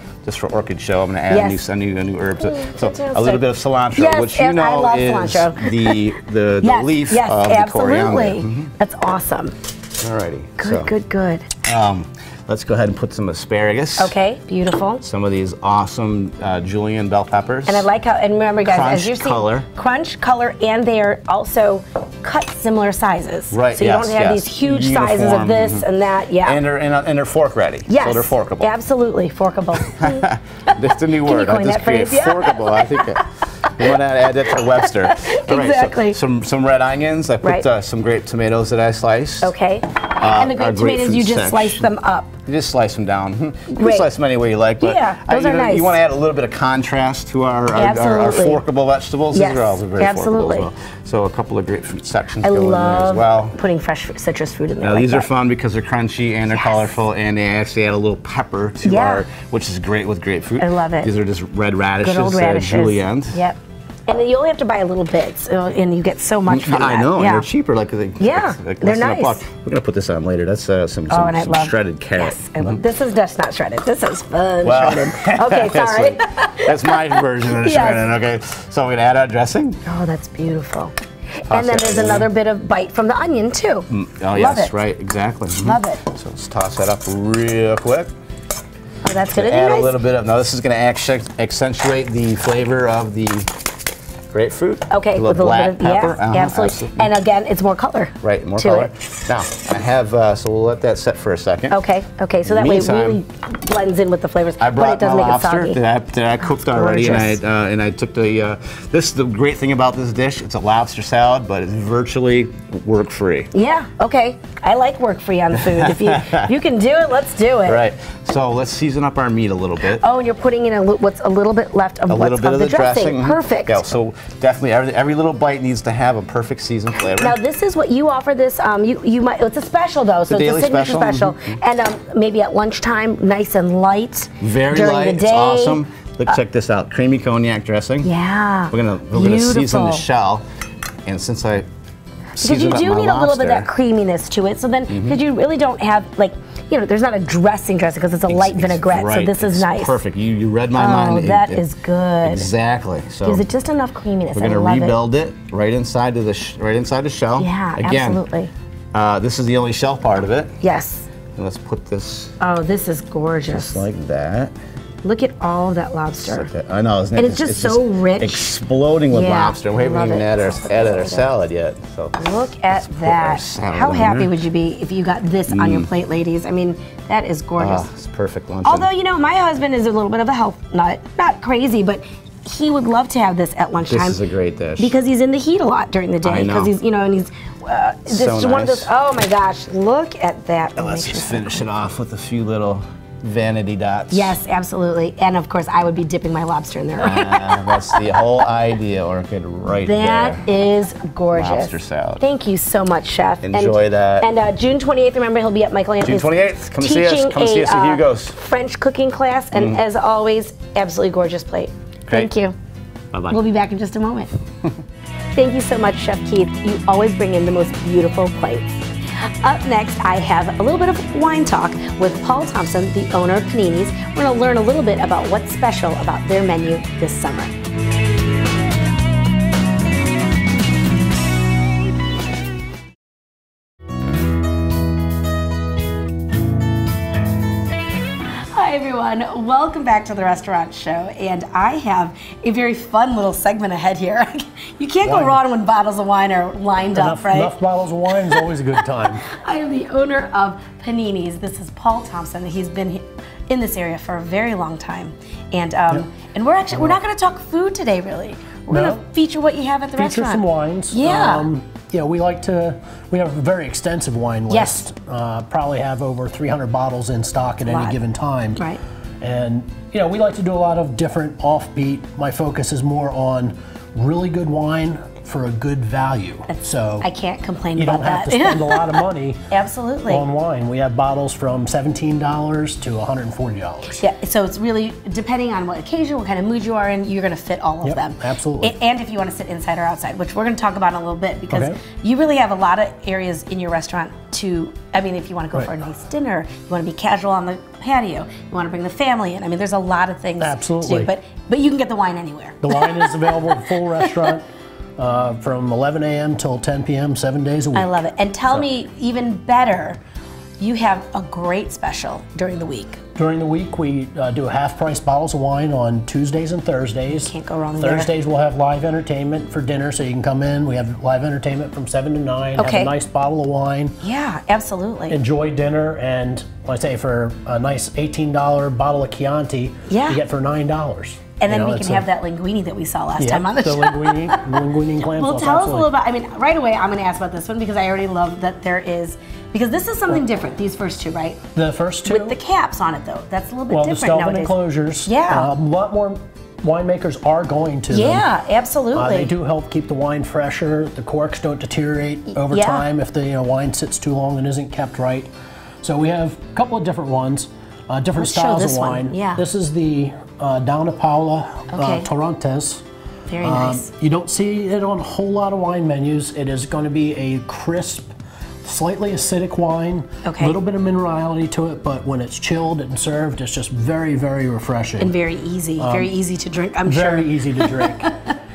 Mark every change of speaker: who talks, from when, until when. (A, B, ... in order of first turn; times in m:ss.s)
0:00.2-0:08.7 A
0:01.3-0:01.6 B
0:02.4-0:06.0 B
0:06.6-0:09.5 B
0:10.0-0:10.9 A
0:10.6-0:11.5 B
0:11.6-0:14.1 A
0:14.0-0:15.0 B
0:15.0-0:17.8 A
0:17.7-0:26.6 B
0:18.6-0:19.6 A
0:23.5-0:25.8 A
0:26.4-0:28.7 A
0:27.9-0:34.0 B
0:29.8-0:39.5 A
0:34.5-0:36.2 B
0:39.4-0:42.4 B
0:40.2-0:41.9 A
0:42.4-0:53.5 A
0:43.7-0:44.1 B
0:44.8-0:46.0 B
0:47.7-0:48.6 B
0:49.3-0:50.7 B
0:52.4-0:55.3 B
0:54.8-1:03.4 A
0:56.5-0:56.9 B
0:58.8-0:59.2 B
1:00.6-1:01.1 B
1:02.0-1:07.4 B
1:06.5-1:12.8 A
1:08.2-1:09.4 B
1:11.1-1:18.0 B
1:14.6-1:19.8 A
1:19.8-1:24.7 B
1:21.5-1:22.3 A
1:23.9-1:28.1 A
1:25.6-1:26.0 B
1:29.0-1:29.9 B
1:29.3-1:33.6 A
1:34.3-1:37.1 A
1:34.9-1:38.9 B
1:38.2-1:41.8 A
1:41.7-1:45.8 B
1:42.4-1:43.2 A
1:44.6-1:53.5 A
1:46.7-1:47.4 B
1:53.5-1:57.8 B
1:55.7-1:56.5 A
1:57.6-2:00.0 A
2:00.0-2:03.9 B
2:02.1-2:07.4 A
2:07.1-2:15.8 B
2:10.3-2:11.4 A
2:14.4-2:18.1 A
2:18.0-2:20.0 B
2:18.7-2:20.4 A
2:21.0-2:21.6 A
2:22.4-2:23.7 A
2:22.4-2:30.0 B
2:24.9-2:25.2 A
2:28.3-2:31.6 A
2:30.8-2:32.5 B
2:32.2-2:33.4 A
2:33.2-2:35.0 B
2:34.3-2:38.2 A
2:37.4-2:38.5 B
2:38.9-2:40.6 A
2:40.6-2:41.1 B
2:41.4-2:42.3 A
2:42.4-2:43.8 B
2:43.5-2:44.5 A
2:45.0-2:46.5 B
2:46.2-2:54.3 A
2:47.2-2:48.6 B
2:49.1-2:51.2 B
2:52.2-2:57.9 B
2:55.5-2:55.9 A
2:57.6-2:58.9 A
2:58.6-3:04.2 B
3:03.9-3:04.9 A
3:04.8-3:11.7 B
3:06.2-3:06.7 A
3:08.1-3:08.9 A
3:10.8-3:14.3 A
3:14.1-3:18.4 B
3:17.0-3:20.4 A
3:19.8-3:32.5 B
3:21.3-3:22.2 A
3:23.4-3:24.3 A
3:26.0-3:28.4 A
3:29.5-3:29.8 A
3:33.1-3:33.4 A
3:33.3-3:34.3 B
3:35.4-3:47.5 B
3:58.5-4:07.5 B
4:05.0-4:05.4 C
4:06.9-4:09.2 C
4:09.2-4:21.4 B
4:16.7-4:17.0 C
4:18.7-4:19.0 C
4:20.0-4:28.6 C
4:24.5-4:24.8 B
4:27.6-4:28.0 B
4:29.2-4:37.1 C
4:36.5-4:40.2 B
4:37.8-4:39.5 C
4:40.1-4:44.0 C
4:43.9-5:03.4 B
4:47.8-4:48.8 C
4:51.5-4:51.8 C
5:00.4-5:01.1 C
5:02.6-5:08.0 C
5:07.7-5:10.0 B
5:10.6-5:13.0 B
5:13.1-5:24.0 C
5:17.2-5:18.1 B
5:22.6-5:22.9 B
5:24.0-5:25.2 B
5:25.1-5:32.0 C
5:29.9-5:30.2 B
5:31.4-5:41.4 B
5:33.2-5:35.9 C
5:41.5-5:42.4 C
5:42.1-5:45.5 B
5:43.7-5:48.3 C
5:47.9-5:49.3 B
5:48.9-5:55.3 C
5:52.3-5:52.8 B
5:55.8-6:02.8 C
5:58.2-5:59.4 B
6:01.7-6:02.1 B
6:03.3-6:03.9 B
6:03.4-6:15.1 C
6:10.2-6:10.6 B
6:15.0-6:18.3 B
6:15.8-6:16.1 C
6:16.8-6:18.1 C